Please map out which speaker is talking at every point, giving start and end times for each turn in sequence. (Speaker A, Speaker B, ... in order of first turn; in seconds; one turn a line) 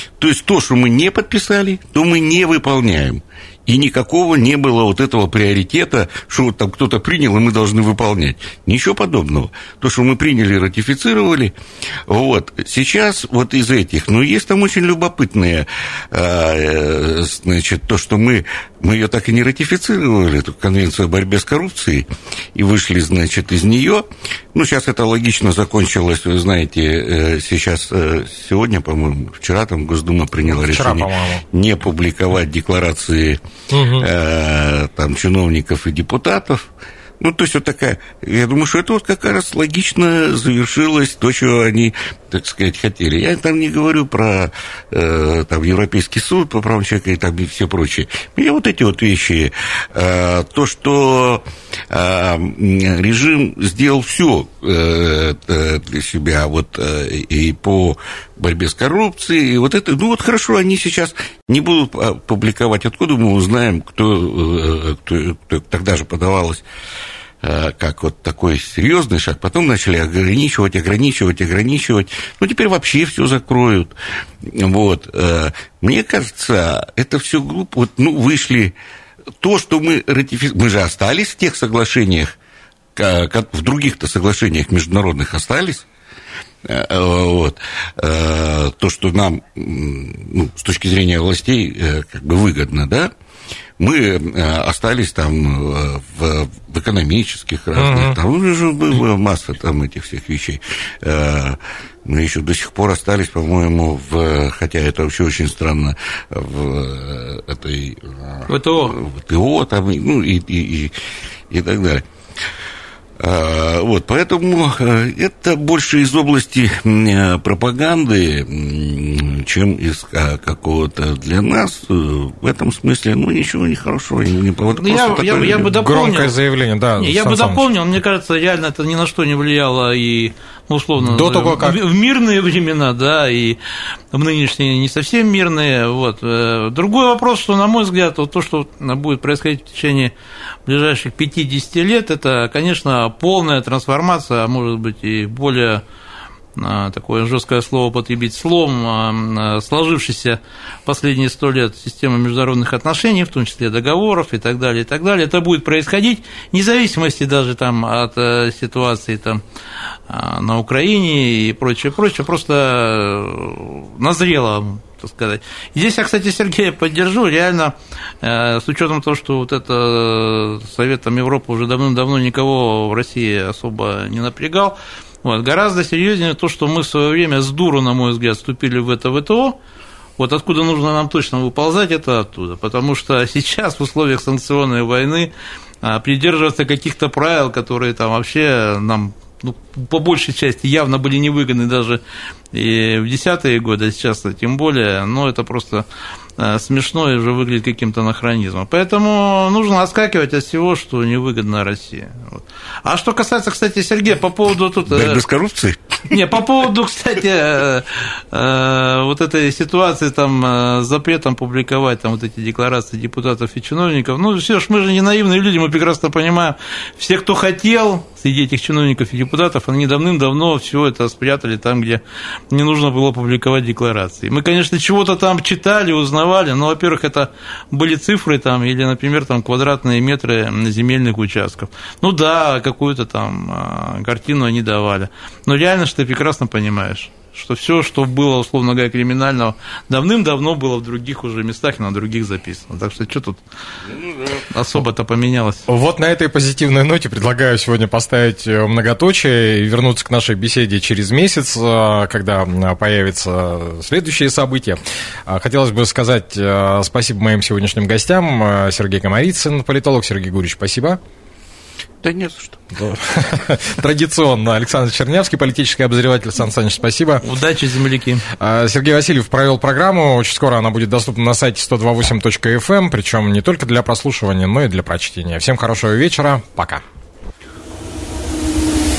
Speaker A: 0.2-11.5
Speaker A: 12.1-33.4
Speaker B: 30.5-31.4
Speaker B: 33.7-34.1
Speaker A: 34.0-36.7
Speaker A: 37.2-66.6
Speaker A: 67.4-78.7
Speaker A: 79.4-82.4
Speaker A: 83.0-85.9
Speaker A: 86.6-93.1
Speaker A: 93.8-110.9
Speaker B: 97.8-98.2
Speaker C: 108.5-109.0
Speaker A: 111.5-112.1
Speaker A: 113.2-125.7
Speaker C: 124.8-126.3
Speaker B: 125.6-127.7
Speaker C: 127.0-133.6
Speaker B: 131.0-131.8
Speaker C: 134.1-140.1
Speaker C: 140.7-145.8
Speaker C: 146.6-159.4
Speaker C: 160.1-179.6
Speaker C: 180.2-195.8
Speaker C: 196.4-205.2
Speaker A: 204.9-206.0
Speaker C: 206.1-243.4
Speaker C: 244.4-245.6
Speaker B: 245.7-261.0
Speaker A: 262.0-262.6
Speaker B: 262.8-267.2
Speaker C: 267.2-268.2
Speaker B: 268.4-276.8